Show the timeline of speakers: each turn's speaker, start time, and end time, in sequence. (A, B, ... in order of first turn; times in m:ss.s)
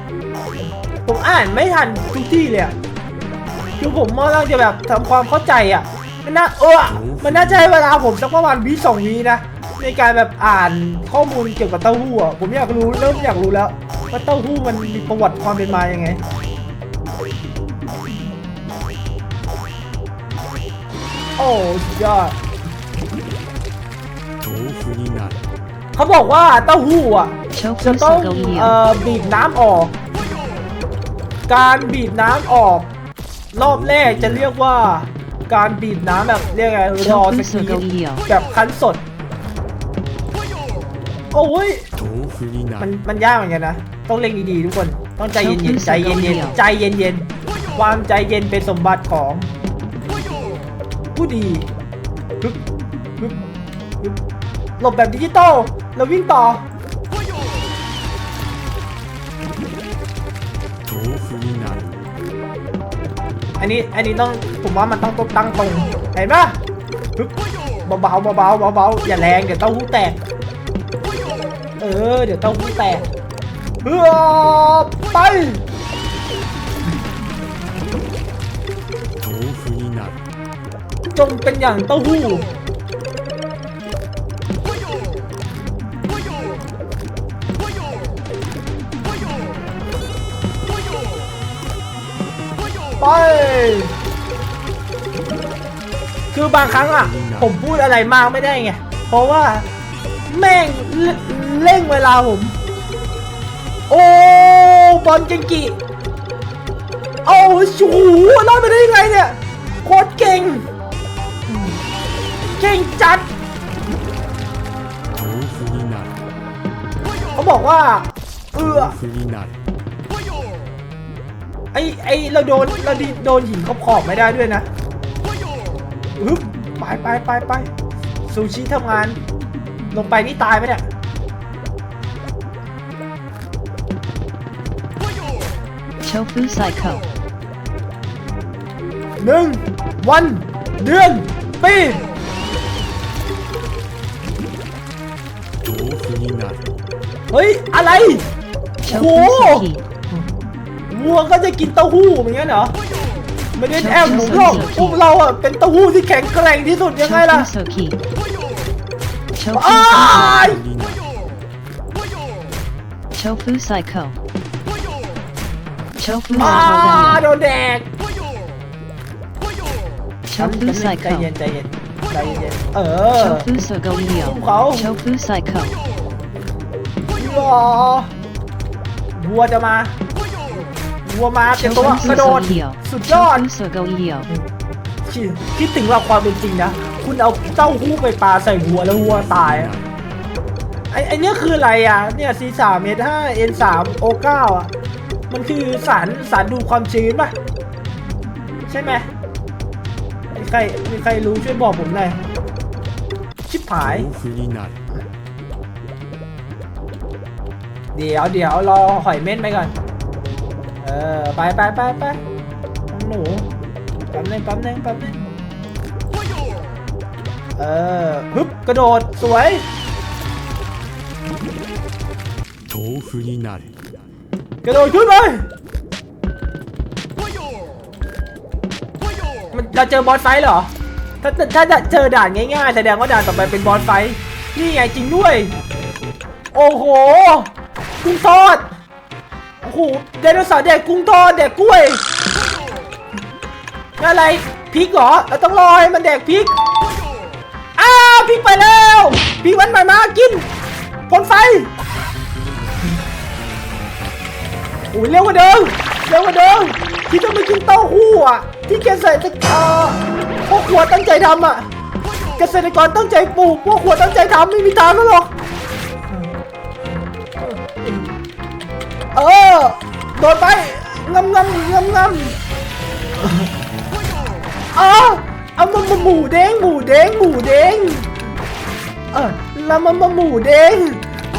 0:01.0-0:02.8 A
0:03.8-0:16.2 A
0:21.4-0:22.4 A
0:24.4-0:25.4 B
0:26.0-0:30.0 A
0:31.5-0:32.9 A
0:33.5-0:39.0 A
0:41.3-0:41.9 A
0:42.2-0:42.6 B
0:42.8-0:49.5 A
0:51.1-0:51.7 A
0:53.2-0:53.4 A
0:54.8-0:56.6 A
1:00.9-1:01.9 B
1:03.6-1:06.6 A
1:07.9-1:10.2 A
1:11.8-1:13.1 A
1:13.8-1:15.6 A
1:19.2-1:20.1 B
1:21.1-1:22.5 A
1:33.0-1:34.0 A
1:36.3-1:39.7 A
1:40.3-1:42.6 A
1:43.9-1:45.8 A
1:47.2-1:50.7 A
1:52.5-1:53.3 A
1:55.2-1:56.1 B
1:57.4-1:59.0 A
2:01.7-2:04.7 A
2:06.2-2:07.7 A
2:08.3-2:09.2 A
2:09.9-2:10.8 A
2:16.1-2:17.0 C
2:19.2-2:22.0 A
2:25.6-2:26.6 B
2:27.3-2:28.3 A
2:28.8-2:29.8 A
2:30.9-2:32.8 A
2:33.6-2:37.5 A
2:39.5-2:40.7 A
2:43.2-2:44.1 C
2:46.0-2:46.3 C
2:46.3-2:47.9 A
2:50.3-2:53.5 A
2:54.1-2:55.0 A
2:55.2-2:55.7 C
2:57.2-2:58.1 A
2:59.2-2:59.9 A
3:01.0-3:03.5 A
3:03.6-3:04.2 C
3:05.0-3:09.8 A
3:10.9-3:14.7 A
3:15.3-3:17.4 A
3:18.7-3:19.1 A
3:20.3-3:22.2 A
3:23.5-3:24.1 A
3:24.2-3:24.7 B
3:27.9-3:29.8 A
3:30.8-3:32.2 A
3:32.9-3:33.5 A
3:34.1-3:35.2 A
3:37.6-3:39.6 A
3:42.7-3:43.7 B
3:44.6-3:45.5 A
3:49.5-3:55.6 A
3:56.5-3:58.7 A
3:59.6-4:02.0 A
4:04.0-4:06.5 A
4:07.8-4:10.5 A
4:11.1-4:11.7 A
4:14.9-4:21.7 A
4:22.4-4:25.3 A
4:27.4-4:28.1 A
4:29.1-4:32.4 A
4:33.2-4:33.5 A
4:34.7-4:38.1 A
4:39.1-4:41.0 A